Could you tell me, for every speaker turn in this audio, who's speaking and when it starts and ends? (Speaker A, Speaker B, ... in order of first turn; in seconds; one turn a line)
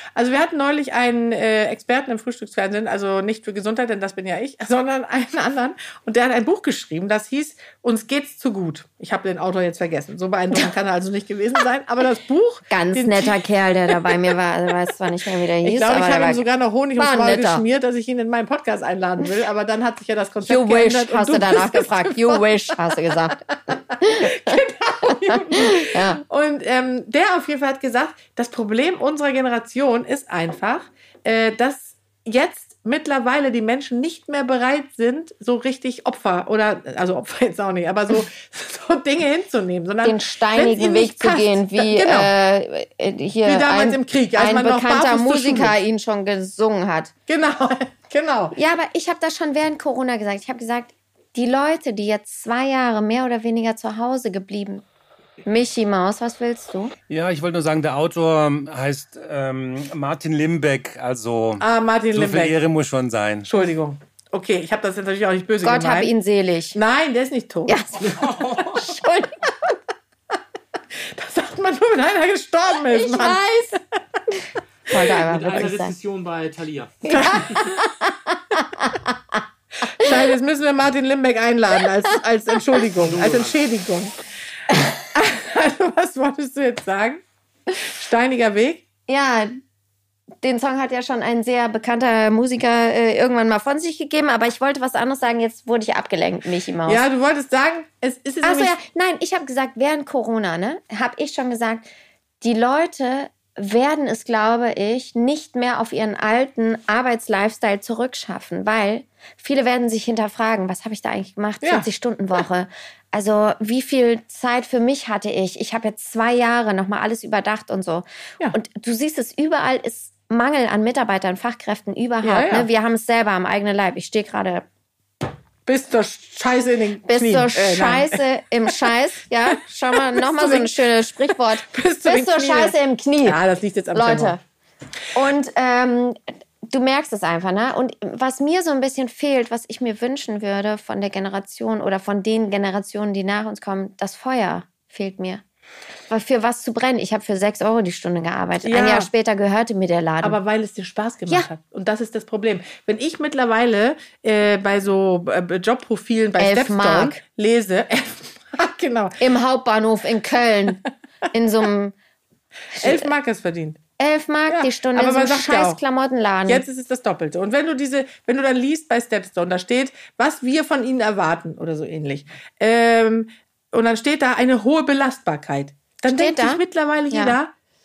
Speaker A: 0.1-13.4
Speaker B: 12.7-16.4
Speaker A: 13.9-14.3
Speaker A: 15.6-42.3
Speaker B: 17.0-17.6
Speaker B: 20.4-23.4
Speaker B: 24.0-26.2
Speaker B: 40.0-47.1
Speaker A: 43.5-45.8
Speaker A: 47.3-48.6
Speaker B: 48.5-54.8
Speaker B: 55.5-56.9
Speaker C: 57.1-63.5
Speaker A: 61.6-62.6
Speaker A: 63.5-66.1
Speaker B: 65.6-66.8
Speaker A: 66.7-67.8
Speaker B: 67.7-69.8
Speaker D: 68.0-68.9
Speaker A: 70.9-73.4
Speaker B: 72.9-73.8
Speaker B: 74.3-76.0
Speaker D: 75.1-77.4
Speaker B: 77.0-79.1
Speaker A: 77.1-77.7
Speaker A: 79.9-84.1
Speaker D: 83.0-83.6
Speaker A: 85.1-87.2
Speaker A: 87.8-88.9
Speaker B: 89.1-89.5
Speaker B: 90.4-97.0
Speaker A: 96.9-98.8
Speaker B: 98.4-101.9
Speaker B: 102.4-124.6
Speaker A: 111.6-111.9
Speaker A: 122.2-122.7
Speaker A: 125.7-128.9
Speaker B: 127.1-133.4
Speaker A: 129.5-130.7
Speaker A: 131.6-134.4
Speaker B: 133.9-134.4
Speaker B: 135.1-145.4
Speaker B: 146.1-150.4
Speaker A: 148.6-149.1
Speaker A: 150.2-159.2
Speaker B: 156.4-157.2
Speaker B: 159.2-161.9
Speaker B: 162.7-163.1
Speaker A: 162.8-163.8
Speaker B: 164.0-166.6
Speaker A: 164.5-165.8
Speaker A: 166.5-177.5
Speaker B: 176.1-177.4